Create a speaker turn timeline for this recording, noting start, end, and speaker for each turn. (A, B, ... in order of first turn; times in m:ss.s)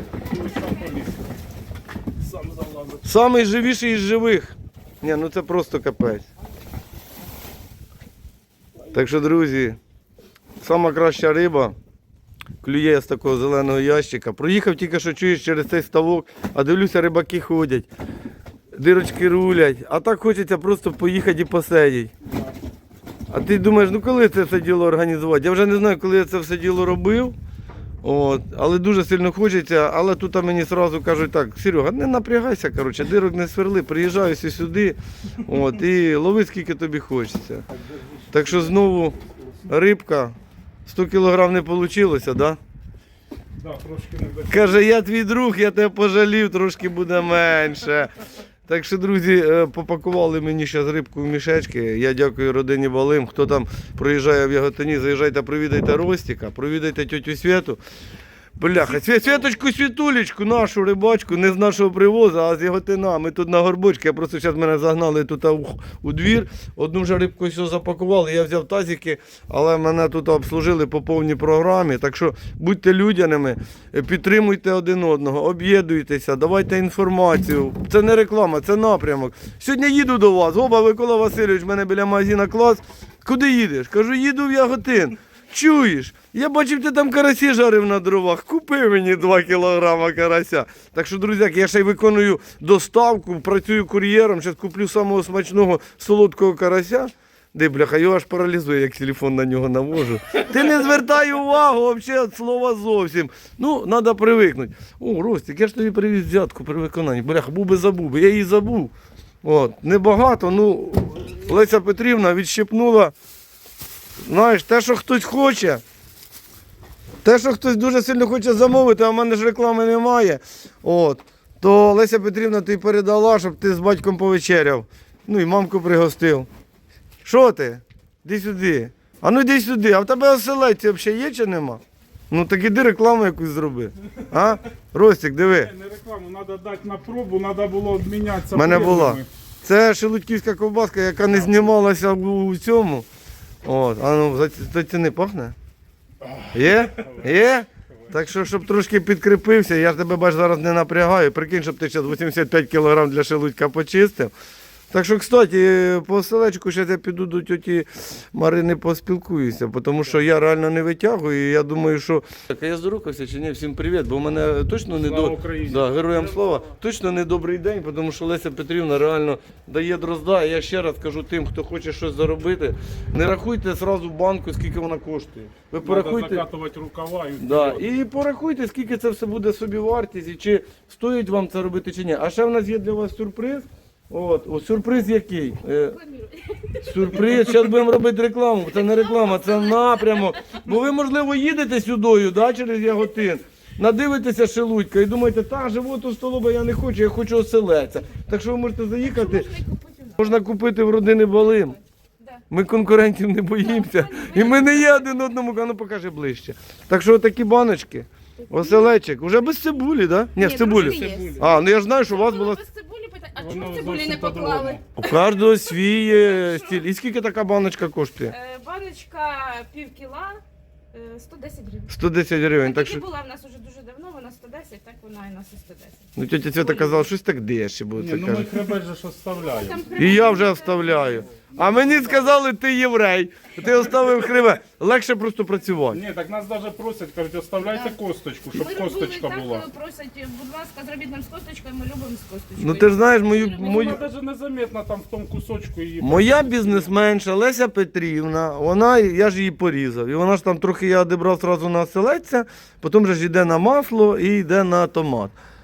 0:00.2-0:01.3 A
0:02.2-0:03.0 A
0:03.0-0:06.3 B
0:08.9-0:09.8 B
0:10.6-0:11.7 B
0:12.6-0:17.9 B
0:18.7-0:22.1 B
0:23.3-0:27.3 B
0:28.0-0:37.6 B
0:38.3-0:40.3 B
0:40.8-0:42.6 B
0:43.6-0:44.8 A
0:44.5-0:48.1 B
0:48.7-0:57.8 B
0:58.6-1:53.1 B
1:54.2-1:55.8 B
1:57.2-2:06.5 B
2:07.2-2:15.7 B
2:15.5-2:19.3 A
2:18.5-2:23.0 B
2:21.3-2:21.7 A
2:23.6-2:25.5 B
2:26.2-2:27.3 A
2:26.5-2:34.3 B
2:34.9-2:56.4 B
2:45.0-2:46.4 A
2:55.8-2:58.0 A
2:57.4-3:06.0 B
3:05.6-3:07.6 C
3:06.8-3:19.5 B
3:08.7-3:10.6 C
3:19.0-3:20.5 C
3:20.2-3:21.8 B
3:21.4-3:22.4 C
3:22.5-3:32.6 B
3:23.6-3:25.1 C
3:28.4-3:29.0 C
3:30.4-3:36.8 C
3:30.8-3:31.6 A
3:33.4-3:34.8 A
3:35.0-3:38.3 B
3:38.3-3:40.4 C
3:40.9-3:41.9 C
3:41.9-3:43.0 B
3:42.6-3:47.0 C
3:46.2-3:48.7 B
3:48.0-3:50.2 A
3:49.4-3:51.2 C
3:50.0-3:56.0 B
3:51.5-3:52.4 A
3:55.9-3:59.7 A
3:58.5-4:03.9 C
4:02.6-4:04.0 B
4:03.6-4:06.9 A
4:06.0-4:15.3 B